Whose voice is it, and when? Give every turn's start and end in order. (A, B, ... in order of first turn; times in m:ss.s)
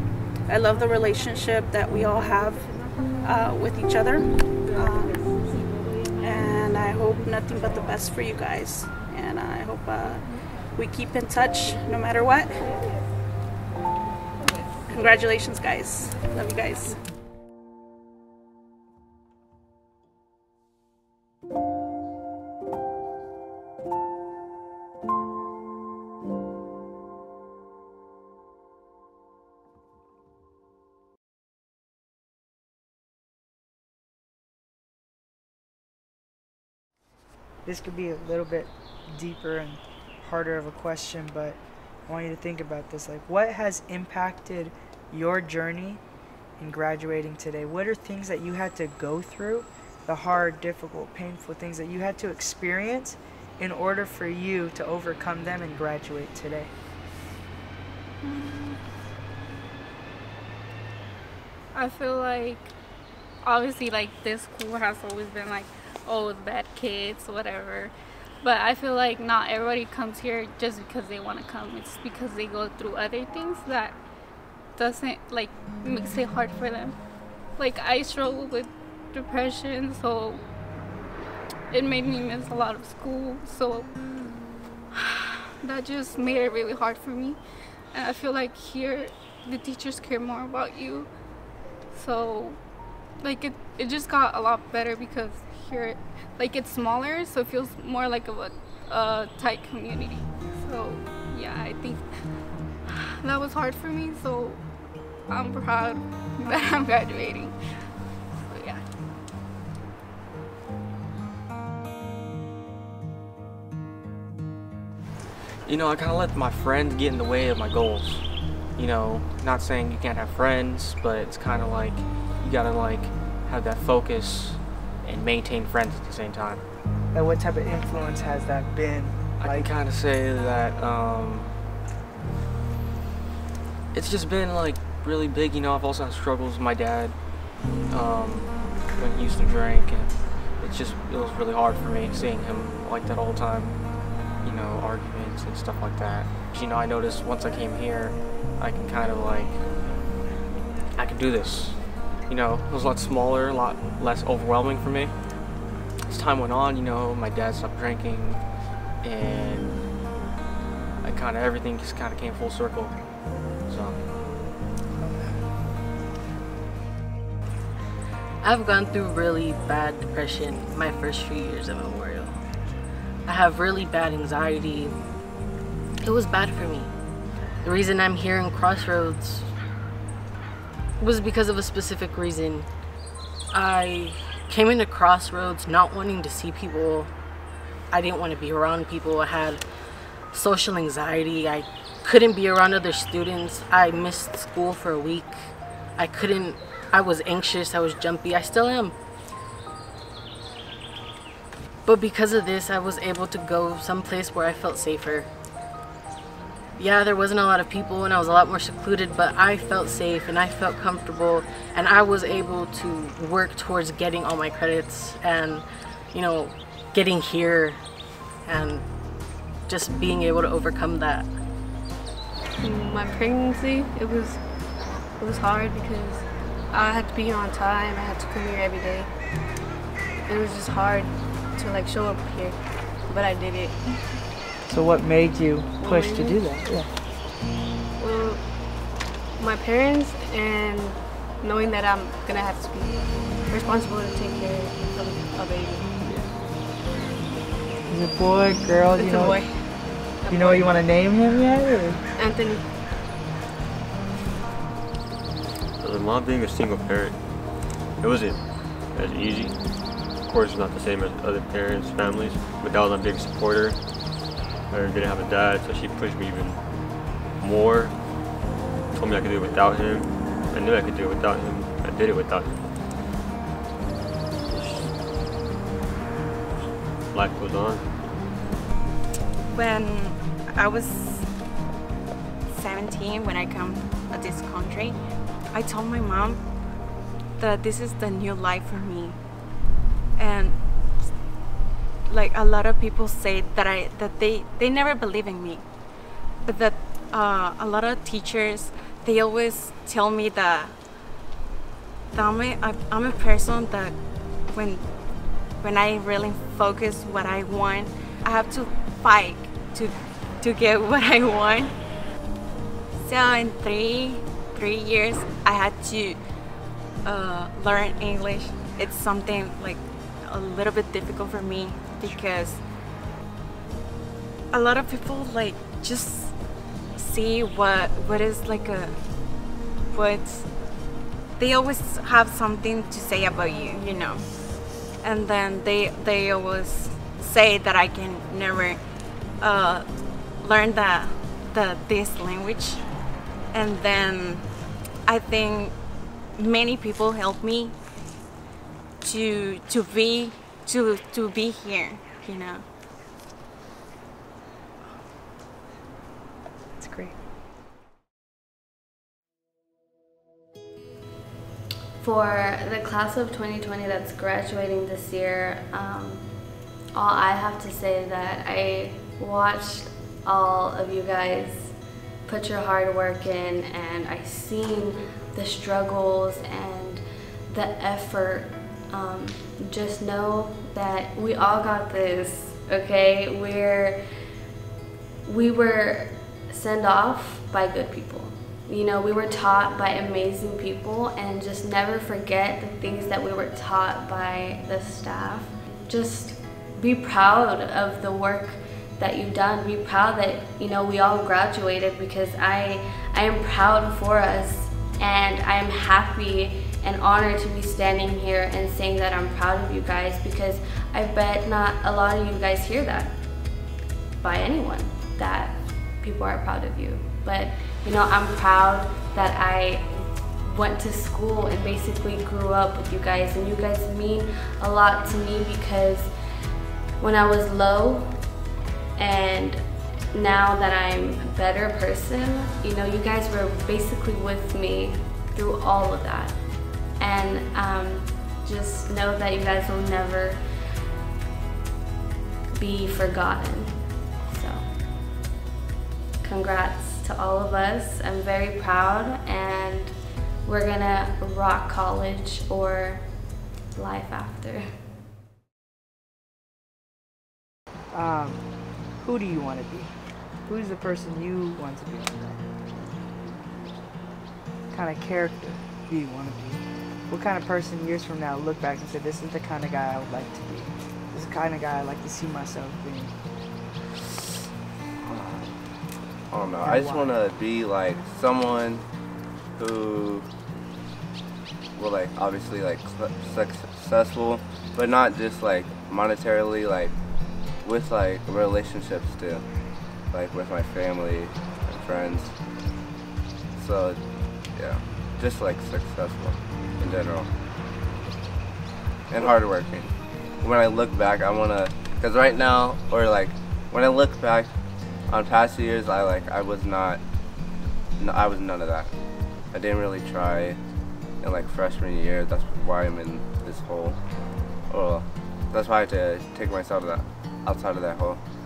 0:00.5-0:02.7 A
0:03.2-0:05.3 A
0:06.2-0:12.7 A
0:14.9-0:17.0 A
0:37.6-0:46.0 B
0:46.6-0:56.7 B
0:58.2-0:58.8 C
1:01.7-1:02.7 C
1:03.4-1:14.0 C
1:14.8-1:17.0 C
1:17.6-1:20.4 C
1:21.7-1:23.9 C
1:24.9-1:27.4 C
1:27.9-1:31.1 C
1:31.9-1:32.6 C
1:33.2-1:42.0 C
1:42.9-1:44.6 C
1:45.3-1:47.5 C
1:48.5-1:48.8 C
1:55.6-2:06.6 D
2:07.1-2:09.7 B
2:09.4-2:11.5 D
2:13.9-2:17.2 D
2:17.9-2:23.8 D
2:24.4-2:29.6 D
2:31.0-2:35.1 D
2:36.1-2:38.4 D
2:39.0-2:39.9 D
2:41.0-2:42.9 D
2:43.7-2:44.1 D
2:48.4-2:52.4 E
2:53.2-2:55.0 E
2:56.0-2:56.9 E
2:57.6-2:59.5 E
3:01.0-3:02.7 E
3:03.5-3:07.1 E
3:07.9-3:18.9 E
3:21.8-3:25.3 E
3:26.8-3:37.8 E
3:38.4-3:38.8 E
3:39.6-3:41.3 E
3:42.6-3:49.1 F
3:50.3-3:53.8 F
3:54.7-3:56.9 B
3:55.8-3:56.6 F
3:58.0-3:58.4 F
3:59.4-4:06.0 F
4:07.9-4:09.5 B
4:08.9-4:09.6 F
4:10.2-4:10.8 F
4:10.3-4:12.0 B
4:12.2-4:12.7 F
4:15.8-4:17.3 G
4:17.9-4:23.8 G
4:24.7-4:26.6 G
4:27.4-4:28.1 G
4:28.9-4:32.6 G
4:34.5-4:34.9 G
4:37.1-4:37.9 G
4:39.5-4:41.3 H
4:42.5-4:45.0 H
4:45.5-4:46.4 H
4:47.4-4:49.2 H
4:50.2-4:50.6 H
4:52.1-4:55.6 H
4:56.4-5:00.8 H
5:02.1-5:04.0 H
5:04.5-5:04.9 H
5:05.6-5:11.7 H
5:13.0-5:16.2 H
5:17.0-5:22.6 H
5:24.5-5:26.4 H
5:26.9-5:28.9 H
5:29.9-5:30.5 H
5:31.4-5:34.2 H
5:35.0-5:38.8 H
5:39.4-5:39.9 H
5:40.4-5:42.8 H
5:43.5-5:44.5 H
5:45.0-5:45.8 H
5:46.3-5:47.7 H
5:49.0-5:52.6 H
5:56.8-5:57.2 B
6:02.0-6:24.1 I
6:25.2-6:53.2 I
6:54.2-7:06.4 I
7:07.0-7:20.5 I
7:22.5-7:24.6 I
7:26.2-7:34.7 I
7:37.9-7:42.4 B
7:44.7-7:53.1 B
7:55.0-7:55.5 B
7:56.3-7:58.8 J
7:56.6-7:57.1 B
7:59.6-8:00.3 J
8:01.8-8:06.9 J
8:07.6-8:09.4 J
8:10.1-8:12.4 J
8:13.5-8:14.0 J
8:14.5-8:17.3 J
8:19.1-8:24.5 J
8:25.1-8:27.0 J
8:28.0-8:28.9 J
8:29.5-8:30.6 J
8:31.2-8:34.0 J
8:34.7-8:38.2 J